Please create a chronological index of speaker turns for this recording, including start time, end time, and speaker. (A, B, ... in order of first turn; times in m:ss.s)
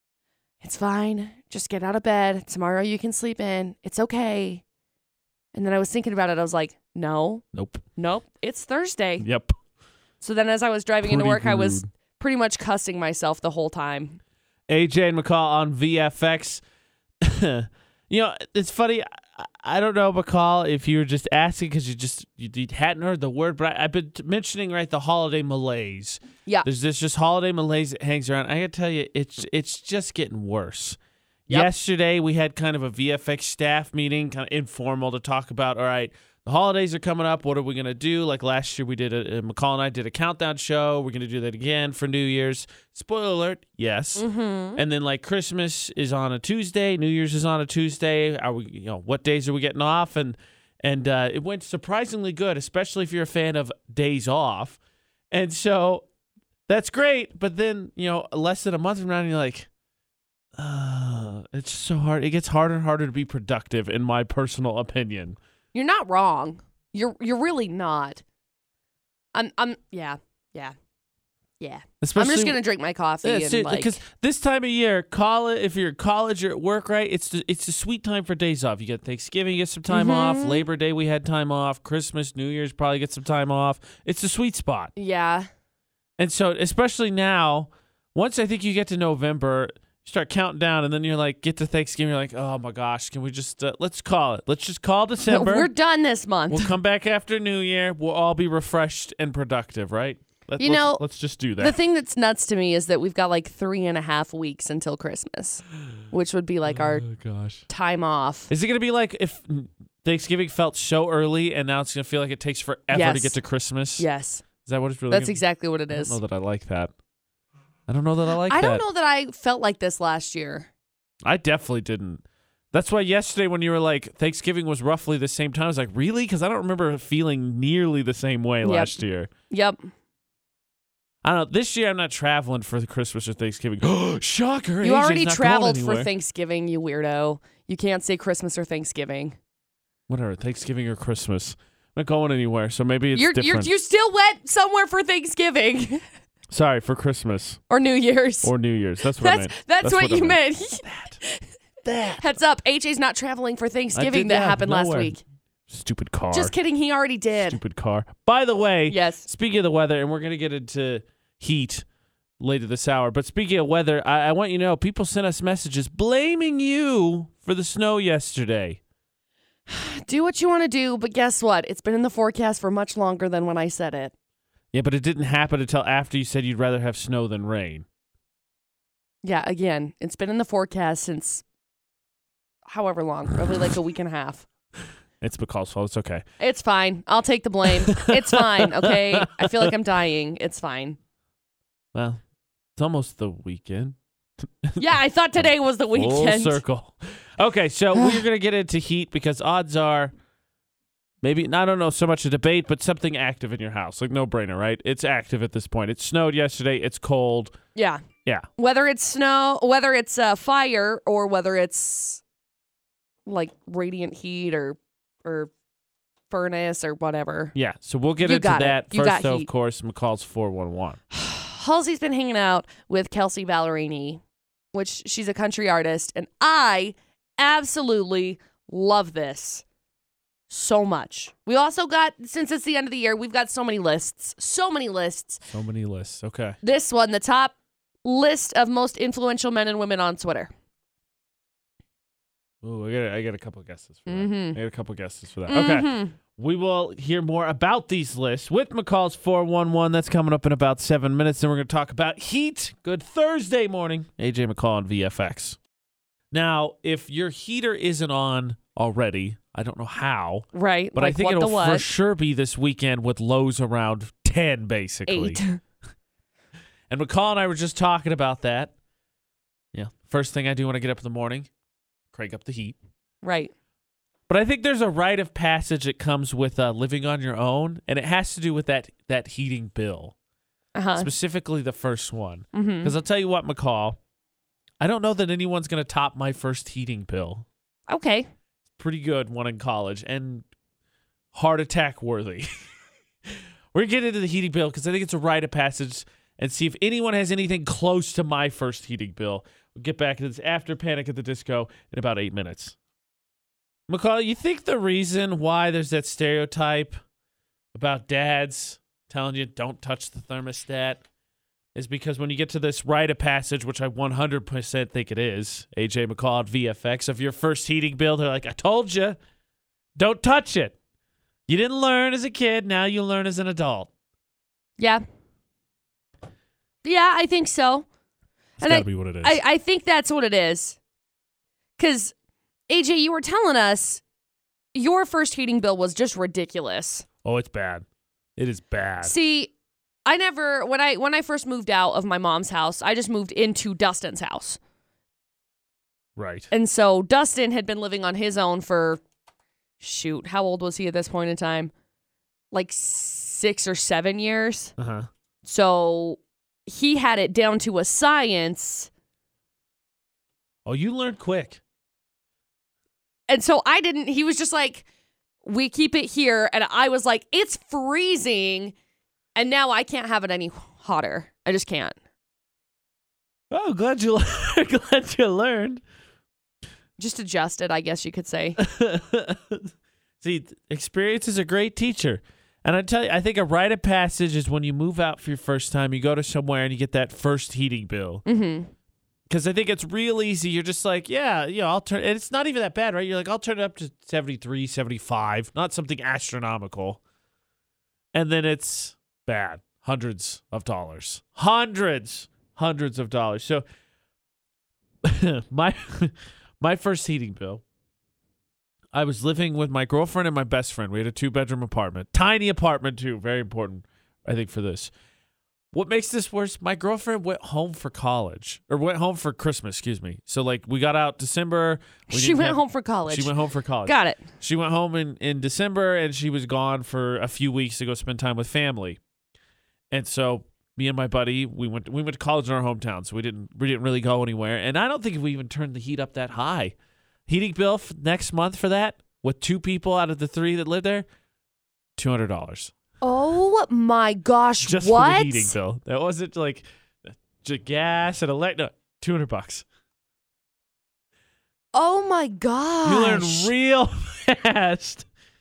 0:00.6-0:04.6 A
0:05.5-0:07.4 A
0:07.5-0:07.8 B
0:08.0-0:09.2 A
0:09.2-0:09.5 B
0:10.2-0:14.2 A
0:11.0-0:11.9 B
0:14.7-0:16.6 B
0:17.2-0:31.0 B
0:31.5-0:54.8 B
0:44.2-0:44.8 A
0:55.3-0:56.0 B
0:56.7-0:59.7 B
1:00.6-1:05.4 B
1:05.7-1:08.2 A
1:09.3-1:10.7 A
1:11.6-1:14.0 A
1:12.0-1:12.6 B
1:13.2-1:24.9 B
1:19.9-1:20.6 A
1:25.0-1:25.5 A
1:26.2-1:35.7 B
1:35.3-1:36.7 A
1:36.5-1:41.8 B
1:40.6-1:41.0 A
1:41.6-1:47.0 A
1:46.6-1:47.6 B
1:47.7-1:48.5 A
1:48.5-1:54.0 B
1:52.9-1:53.4 A
1:54.0-1:54.4 A
1:54.6-1:56.9 B
1:55.1-1:56.2 A
1:57.9-1:58.8 B
1:58.5-2:00.7 A
2:01.2-2:09.3 B
2:08.6-2:09.8 A
2:11.2-2:16.1 B
2:14.8-2:19.4 A
2:20.1-2:23.7 B
2:23.1-2:26.0 A
2:26.5-2:27.6 B
2:27.7-2:28.5 A
2:28.4-2:31.2 B
2:29.0-2:31.4 A
2:31.8-2:32.2 B
2:32.2-2:35.2 A
2:33.9-2:35.2 B
2:35.7-2:36.5 B
2:36.3-2:37.6 A
2:37.5-2:41.8 B
2:38.9-2:39.3 A
2:42.4-2:48.8 B
2:49.7-2:54.1 A
2:54.7-2:57.8 B
2:59.2-3:01.4 A
3:02.7-3:04.4 A
3:05.2-3:06.2 B
3:06.4-3:11.0 A
3:07.9-3:09.7 B
3:11.9-3:12.2 B
3:12.8-3:14.8 B
3:14.8-3:16.6 A
3:15.4-3:20.1 B
3:17.9-3:18.2 A
3:21.2-3:27.6 B
3:27.7-3:28.0 A
3:28.6-3:32.2 A
3:33.2-3:35.5 A
3:36.3-3:37.5 A
3:37.5-3:41.0 B
3:38.2-3:39.5 A
3:41.1-3:44.2 A
3:44.7-3:49.6 A
3:50.5-3:55.4 A
3:55.5-3:56.6 B
3:56.6-3:57.5 A
3:58.0-4:00.5 A
4:02.6-4:15.6 B
4:04.1-4:04.6 A
4:05.5-4:06.1 A
4:16.3-4:25.4 B
4:20.5-4:21.9 A
4:25.1-4:25.6 A
4:26.9-4:28.7 B
4:29.7-4:31.5 B
4:32.1-4:32.8 B
4:33.2-4:33.5 A
4:34.3-4:40.1 B
4:40.7-4:41.1 A
4:41.0-4:44.0 B
4:42.5-4:42.9 A
4:44.8-4:47.4 B
4:47.9-4:48.3 A
4:48.8-4:50.4 B
4:51.3-4:52.5 B
4:53.7-5:02.8 B
5:03.9-5:07.0 B
5:07.7-5:11.0 B
5:11.7-5:19.2 B
5:20.0-5:20.7 B
5:21.5-5:23.9 B
5:24.8-5:25.0 A
5:26.8-5:27.8 A
5:28.6-5:29.4 B
5:28.6-5:30.8 A
5:31.8-5:32.1 A
5:32.7-5:34.0 A
5:34.7-5:37.0 A
5:37.2-5:37.8 B
5:38.4-5:39.1 B
5:39.0-5:39.5 A
5:40.0-5:44.6 A
5:46.2-5:46.5 B
5:46.5-5:49.0 A
5:49.8-5:51.7 A
5:52.5-5:54.7 A
5:54.8-5:55.1 B
5:55.4-5:58.9 A
6:00.6-6:01.6 B
6:03.3-6:04.8 A
6:05.4-6:08.7 A
6:09.4-6:11.9 A
6:13.5-6:15.8 B
6:17.0-6:18.6 A
6:18.6-6:28.2 B
6:28.2-6:28.7 A
6:29.3-6:37.0 B
6:38.1-6:43.6 B
6:45.0-6:47.6 B
6:48.9-6:54.9 B
6:55.7-7:09.0 B
7:02.1-7:03.3 A
7:03.8-7:04.2 A
7:09.9-7:16.7 B
7:17.3-7:21.1 B
7:22.0-7:22.7 B
7:23.0-7:25.5 A
7:24.6-7:29.6 B
7:31.7-7:33.5 A
7:32.8-7:35.0 B